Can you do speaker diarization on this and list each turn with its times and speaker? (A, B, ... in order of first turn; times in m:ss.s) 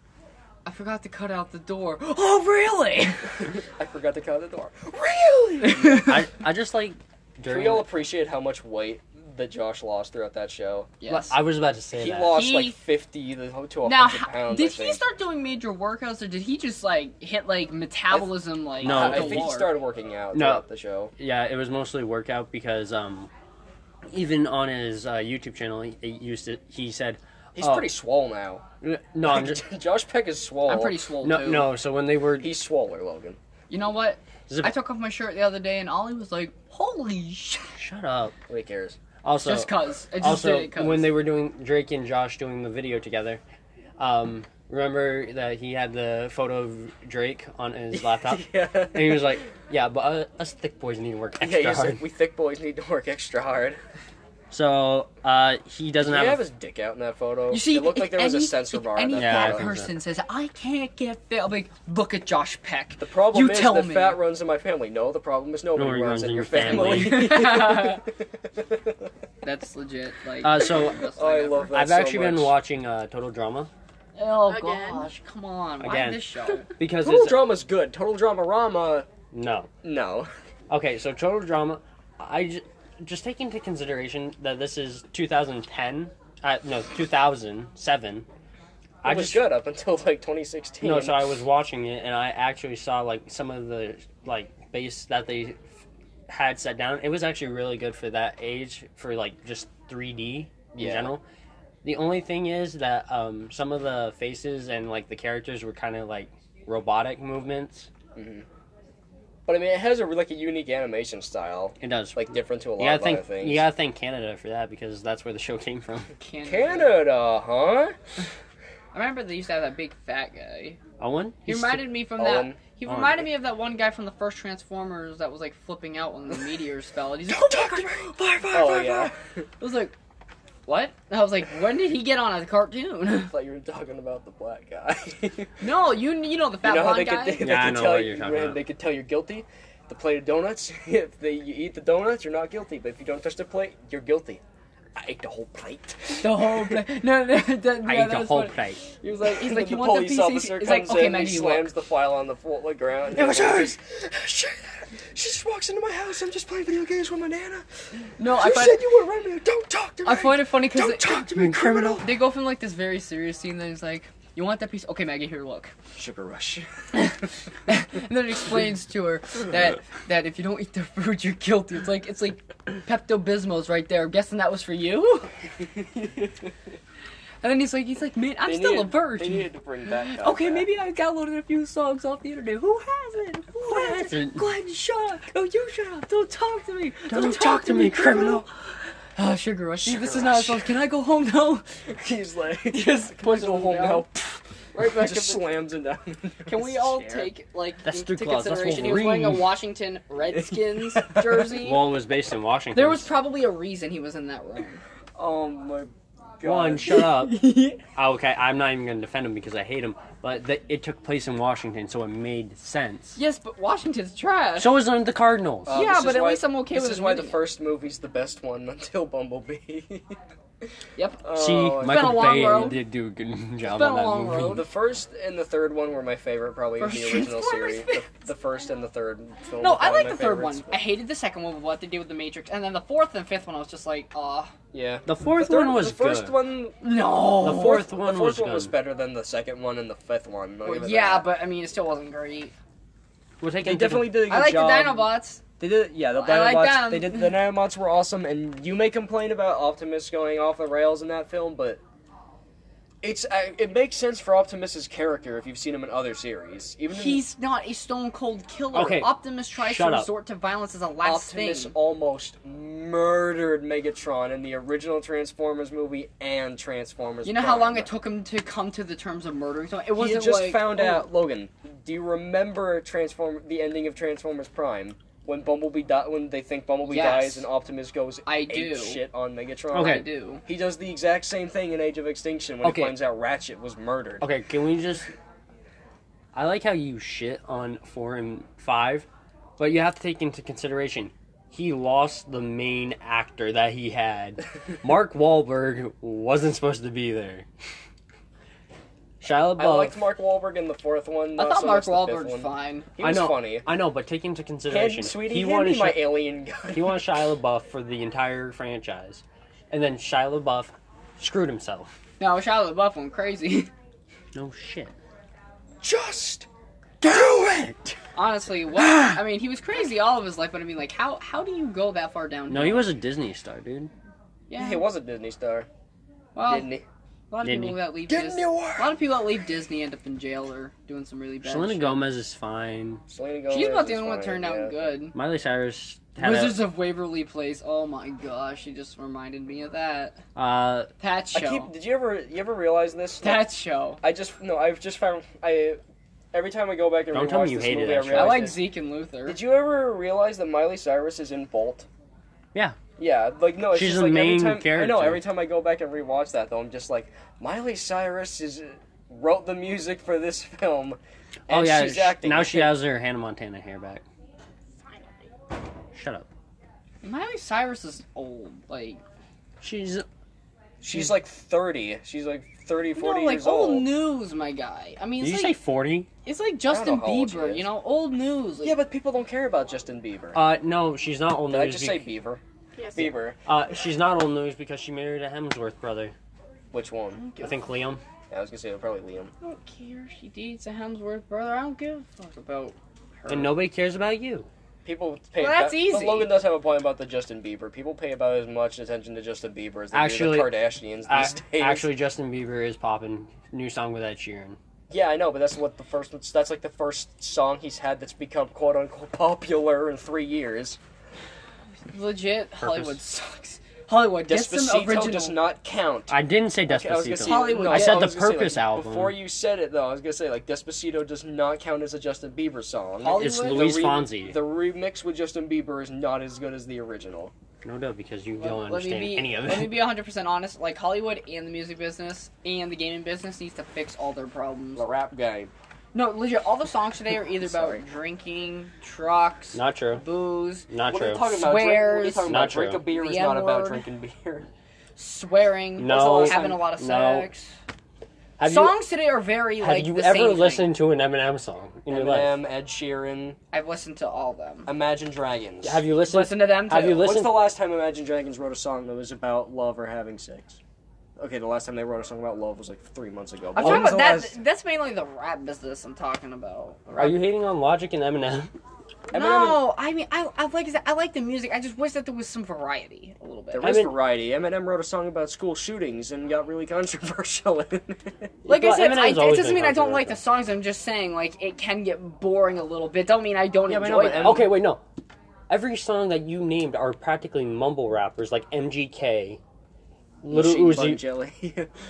0:00.7-0:03.5 A
0:03.6-0:06.2 B
0:05.6-0:06.2 A
0:06.0-0:07.9 C
0:07.5-0:10.9 B
0:11.0-0:11.4 A
0:11.1-0:12.4 C
0:11.9-0:15.0 B
0:12.3-0:12.8 A
0:13.9-0:19.7 A
0:18.1-0:21.1 B
0:18.8-0:19.6 C
0:20.3-0:20.6 C
0:21.2-0:23.3 C
0:24.1-0:27.9 C
0:27.6-0:28.7 B
0:28.8-0:29.6 C
0:29.2-0:31.0 B
0:30.7-0:31.7 A
0:31.2-0:32.5 C
0:32.4-0:33.4 B
0:33.7-0:37.8 A
0:34.5-0:34.8 C
0:37.8-0:38.4 C
0:38.5-0:39.0 B
0:39.2-0:43.4 C
0:39.4-0:41.1 A
0:44.0-0:52.0 C
0:47.9-0:49.4 B
0:51.4-0:53.8 B
0:54.5-0:56.4 C
0:56.0-0:59.7 B
0:57.5-1:04.2 A
0:59.2-0:59.9 C
1:03.0-1:09.1 B
1:05.8-1:07.5 C
1:06.8-1:08.0 A
1:09.4-1:11.8 A
1:10.4-1:11.1 C
1:11.2-1:12.5 B
1:11.7-1:13.7 C
1:14.2-1:16.7 A
1:15.8-1:17.5 C
1:17.0-1:19.1 B
1:19.3-1:19.7 C
1:19.8-1:20.3 B
1:20.7-1:28.3 C
1:29.0-1:29.4 C
1:29.0-1:31.3 B
1:30.8-1:35.7 C
1:36.3-1:41.2 C
1:40.7-1:41.1 B
1:41.8-1:47.9 C
1:48.2-1:48.5 B
1:49.5-1:53.6 B
1:51.8-1:56.1 C
1:56.2-1:57.0 A
1:56.5-1:58.0 B
1:58.9-2:00.8 A
2:01.0-2:02.0 C
2:01.5-2:09.9 A
2:02.2-2:02.6 B
2:02.9-2:03.3 C
2:07.3-2:09.2 B
2:10.7-2:13.3 A
2:13.3-2:15.6 B
2:15.6-2:17.5 A
2:16.6-2:24.4 B
2:17.4-2:18.6 C
2:25.0-2:26.8 B
2:26.2-2:31.7 A
2:27.8-2:28.8 C
2:29.2-2:42.2 B
2:33.1-2:33.7 A
2:38.2-2:38.8 A
2:40.0-2:45.7 A
2:41.4-2:42.0 C
2:46.0-2:46.7 B
2:46.9-2:55.3 A
2:55.8-2:56.5 B
2:57.4-3:11.8 A
2:58.5-3:00.7 B
3:03.7-3:04.4 C
3:07.1-3:08.4 C
3:09.8-3:10.7 B
3:11.9-3:14.1 B
3:12.7-3:14.1 A
3:14.7-3:15.5 A
3:14.8-3:17.3 B
3:16.5-3:21.9 A
3:17.8-3:19.6 C
3:20.3-3:21.6 B
3:21.6-3:23.1 C
3:22.7-3:24.8 A
3:25.2-3:27.8 B
3:26.4-3:33.2 C
3:33.2-3:34.8 A
3:34.6-3:35.8 C
3:35.7-3:40.2 B
3:35.7-3:37.4 A
3:41.0-3:41.2 A
3:41.2-3:42.7 B
3:41.3-3:44.6 C
3:41.8-3:42.8 A
3:43.6-3:44.6 A
3:44.3-3:51.0 B
3:46.8-3:48.1 A
3:49.6-3:54.5 A
3:54.7-4:01.4 B
3:55.1-3:56.3 C
3:56.8-3:57.9 A
3:57.4-3:58.7 C
4:00.6-4:02.5 A
4:03.4-4:04.3 C
4:03.6-4:11.8 B
4:04.3-4:05.4 A
4:06.1-4:07.4 A
4:13.0-4:17.2 B
4:16.9-4:21.7 A
4:18.7-4:20.1 C
4:21.0-4:27.9 B
4:27.2-4:31.1 A
4:30.0-4:44.2 B
4:36.8-4:37.5 A
4:38.3-4:39.0 A
4:39.7-4:40.1 C
4:39.7-4:40.4 A
4:42.6-4:43.0 C
4:44.2-4:45.1 C
4:46.3-4:49.1 C
4:49.6-4:57.5 C
4:59.2-5:00.0 C
4:59.6-5:03.7 B
5:01.4-5:02.9 A
5:03.0-5:06.2 C
5:04.7-5:07.2 B
5:06.7-5:11.9 C
5:12.2-5:13.7 A
5:14.3-5:14.9 C
5:15.8-5:16.5 B
5:17.0-5:18.0 B
5:18.2-5:22.9 A
5:22.5-5:23.9 C
5:24.5-5:24.9 A
5:24.6-5:25.7 B
5:26.4-5:26.7 A
5:26.5-5:26.8 B
5:27.3-5:32.1 A
5:27.4-5:27.8 C
5:28.1-5:29.0 B
5:31.4-5:33.0 C
5:33.1-5:34.9 B
5:33.5-5:35.2 A
5:35.1-5:36.6 C
5:36.2-5:40.2 A
5:40.4-5:40.9 C
5:41.0-5:41.7 A
5:41.3-5:43.5 B
5:43.2-5:44.0 A
5:44.0-5:45.8 B
5:46.3-5:48.7 B
5:47.1-5:48.5 C
5:48.1-5:49.4 A
5:49.3-5:51.9 B
5:53.0-6:02.8 B
5:53.7-5:55.2 C
6:01.5-6:04.0 C
6:04.8-6:05.3 A
6:05.9-6:06.3 C
6:07.0-6:09.0 A
6:09.6-6:10.0 C
6:10.8-6:13.9 B
6:13.0-6:15.6 A
6:15.2-6:16.1 C
6:16.2-6:18.8 A
6:16.7-6:17.7 B
6:18.6-6:20.4 B
6:20.3-6:22.1 C
6:21.5-6:22.4 B
6:22.8-6:23.0 A
6:22.9-6:23.4 B
6:23.0-6:26.1 C
6:26.7-6:27.2 B
6:27.2-6:27.7 A
6:27.4-6:28.0 C
6:28.3-6:29.3 B
6:29.4-6:33.6 A
6:33.3-6:34.5 C
6:34.8-6:41.9 B
6:35.4-6:36.4 A
6:39.9-6:40.5 C
6:41.1-6:44.6 C
6:44.9-6:50.8 B
6:51.9-6:55.4 A
6:52.6-6:53.0 C
6:54.2-7:07.3 B
6:56.1-6:59.2 C
6:57.2-6:58.1 A
7:03.0-7:03.7 A
7:03.1-7:04.4 C
7:07.6-7:09.9 C
7:08.4-7:14.8 A
7:14.8-7:15.5 B
7:15.9-7:20.7 A
7:17.4-7:17.8 B
7:19.5-7:20.0 C
7:20.7-7:21.4 C
7:20.8-7:24.5 B
7:21.3-7:23.9 A
7:22.2-7:22.8 C
7:25.0-7:27.6 A
7:25.8-7:27.3 C
7:25.8-7:26.6 B
7:28.4-7:28.8 C
7:28.4-7:30.7 A
7:29.6-7:32.4 C
7:31.9-7:33.4 B
7:33.5-7:34.7 A
7:34.7-7:35.8 B
7:35.6-7:37.5 C
7:36.0-7:37.0 A
7:36.8-7:40.6 B
7:41.2-7:44.4 B
7:43.6-7:47.2 A
7:43.6-7:43.9 C
7:47.0-7:48.5 C
7:49.1-7:49.7 B
7:49.1-7:53.9 A
7:53.5-7:58.3 B
7:53.6-7:53.9 C
7:58.4-8:00.2 C
7:58.4-8:04.5 A
8:03.7-8:04.6 B
8:03.7-8:04.8 C
8:05.5-8:09.4 C
8:10.2-8:11.0 C
8:10.3-8:11.7 B